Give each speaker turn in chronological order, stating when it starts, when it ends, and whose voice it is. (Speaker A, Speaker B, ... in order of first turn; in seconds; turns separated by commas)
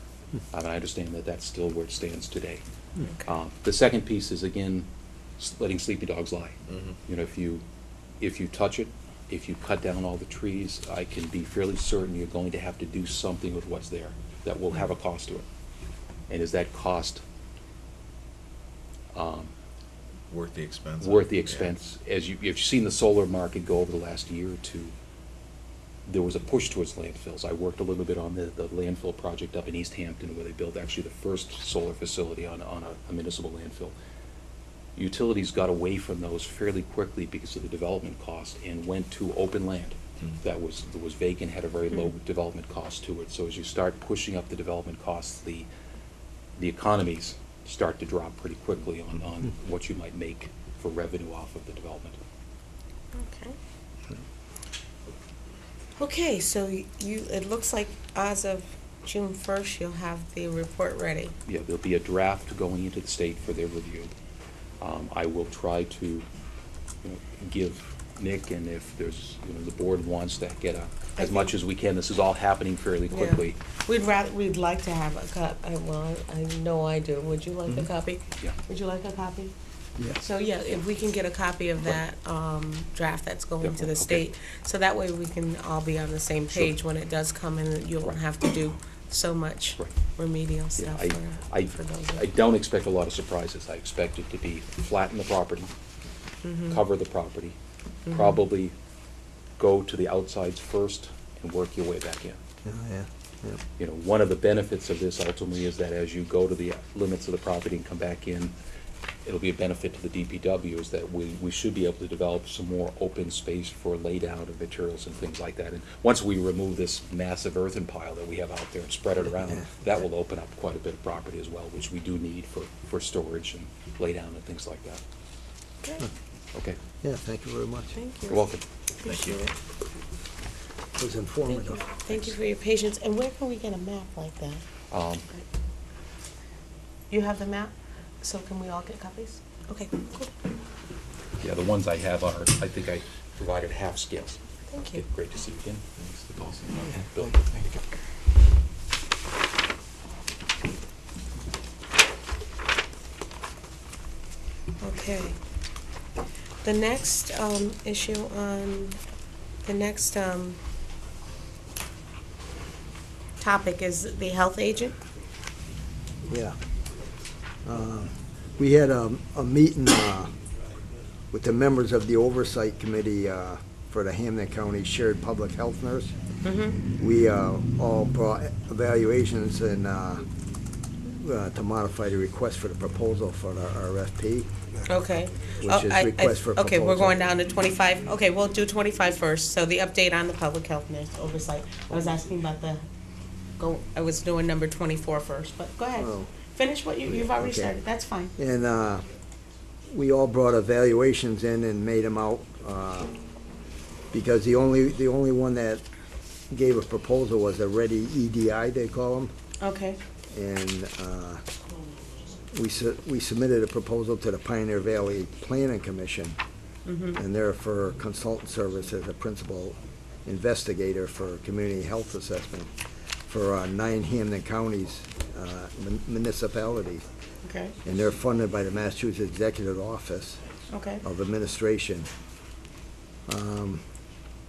Speaker A: 0.5-2.6, Speaker B: 3.0-3.3, Speaker A: 3.2-4.9, Speaker A: 5.4-7.6, Speaker C: 6.7-7.0, Speaker A: 8.2-15.5, Speaker A: 16.3-17.2, Speaker A: 19.1-19.5, Speaker C: 20.3-21.7, Speaker A: 21.0-24.9, Speaker A: 26.1-33.9, Speaker A: 35.0-45.7, Speaker A: 46.6-52.2, Speaker B: 53.1-53.6, Speaker B: 56.0-61.4, Speaker A: 61.5-64.1, Speaker A: 64.8-66.2, Speaker A: 67.0-73.6, Speaker B: 71.2-71.5, Speaker B: 73.1-79.5, Speaker B: 80.1-92.2, Speaker A: 83.6-84.3, Speaker A: 90.7-95.7, Speaker B: 96.4-96.8, Speaker A: 96.7-97.6, Speaker B: 98.0-98.4, Speaker A: 98.1-98.7, Speaker A: 99.6-102.4, Speaker D: 102.6-103.6, Speaker A: 103.8-108.5, Speaker A: 109.2-125.0, Speaker D: 127.0-127.9, Speaker B: 127.9-128.5, Speaker A: 128.3-128.6, Speaker B: 129.0-129.5, Speaker C: 129.1-129.5, Speaker D: 131.0-132.0, Speaker B: 131.4-134.6, Speaker A: 134.9-135.2, Speaker B: 137.1-140.3, Speaker A: 141.4-144.4, Speaker B: 144.7-145.0, Speaker A: 144.9-147.4, Speaker D: 147.2-147.8, Speaker B: 154.8-155.4, Speaker B: 156.6-159.0, Speaker B: 159.6-160.6, Speaker B: 163.4-165.0, Speaker D: 166.3-166.6, Speaker D: 167.7-170.3, Speaker D: 171.3-176.1, Speaker B: 176.4-176.8, Speaker D: 177.0-180.2, Speaker D: 181.2-184.5, Speaker B: 184.8-192.9, Speaker D: 185.6-187.3, Speaker B: 193.6-198.3, Speaker D: 195.9-196.3, Speaker D: 197.1-197.8, Speaker D: 198.4-199.1, Speaker D: 199.9-203.1, Speaker D: 204.1-205.8, Speaker D: 206.5-209.3, Speaker B: 209.6-210.0, Speaker D: 210.3-211.4, Speaker D: 212.5-216.4, Speaker B: 216.8-217.2, Speaker D: 217.1-222.7, Speaker D: 223.3-227.0, Speaker B: 227.4-227.8, Speaker D: 227.8-230.4, Speaker B: 230.7-231.0, Speaker D: 231.0-232.1, Speaker D: 233.3-233.8